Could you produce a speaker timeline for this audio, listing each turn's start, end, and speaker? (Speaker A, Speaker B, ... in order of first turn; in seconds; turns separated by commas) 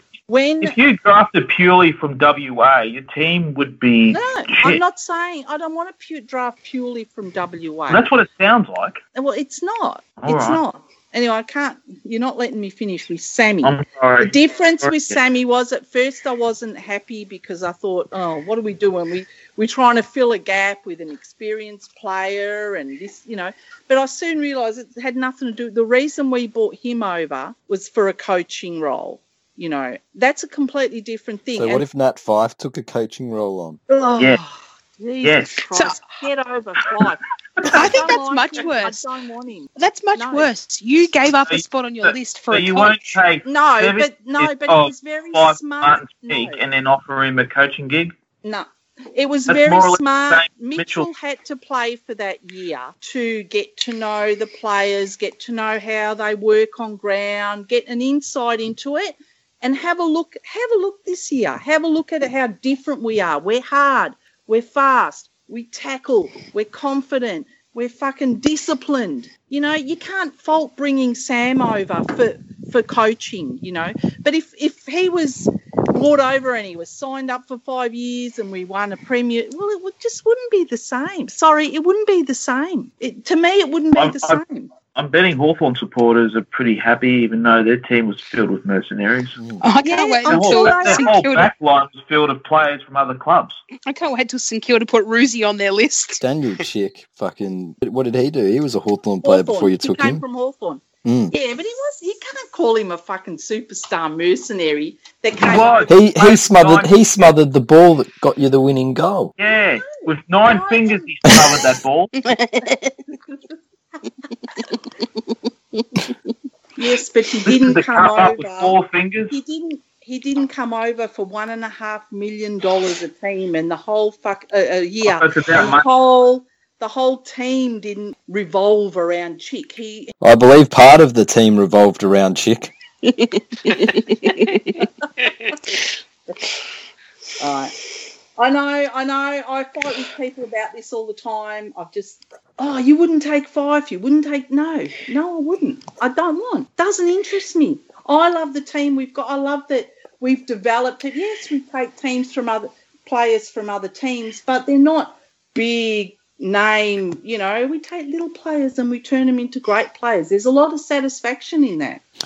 Speaker A: 0.3-0.8, Speaker B: 0.6-4.8, Speaker A: 4.1-8.1, Speaker B: 7.9-9.0, Speaker A: 9.1-31.8, Speaker B: 10.2-10.6, Speaker B: 13.6-14.9, Speaker C: 31.6-33.8, Speaker A: 33.9-40.5, Speaker B: 35.2-35.6, Speaker D: 35.7-36.0, Speaker D: 37.7-39.0, Speaker D: 39.8-43.2, Speaker B: 41.5-48.1, Speaker A: 43.4-46.6, Speaker A: 48.4-84.7, Speaker B: 49.5-51.1, Speaker B: 83.9-89.4, Speaker D: 89.6-91.5, Speaker A: 89.8-91.1, Speaker B: 90.3-93.6, Speaker D: 93.9-96.2, Speaker C: 96.2-100.2, Speaker A: 99.2-105.9, Speaker C: 101.0-101.3, Speaker B: 105.4-106.9, Speaker C: 105.8-109.3, Speaker B: 109.4-112.1, Speaker A: 109.8-111.1, Speaker D: 112.2-113.0, Speaker D: 115.8-116.1, Speaker A: 116.8-118.8, Speaker B: 117.5-119.3, Speaker A: 119.3-130.1, Speaker B: 125.0-125.9, Speaker C: 130.2-132.7, Speaker D: 133.1-134.8, Speaker A: 137.4-137.7, Speaker A: 138.4-162.0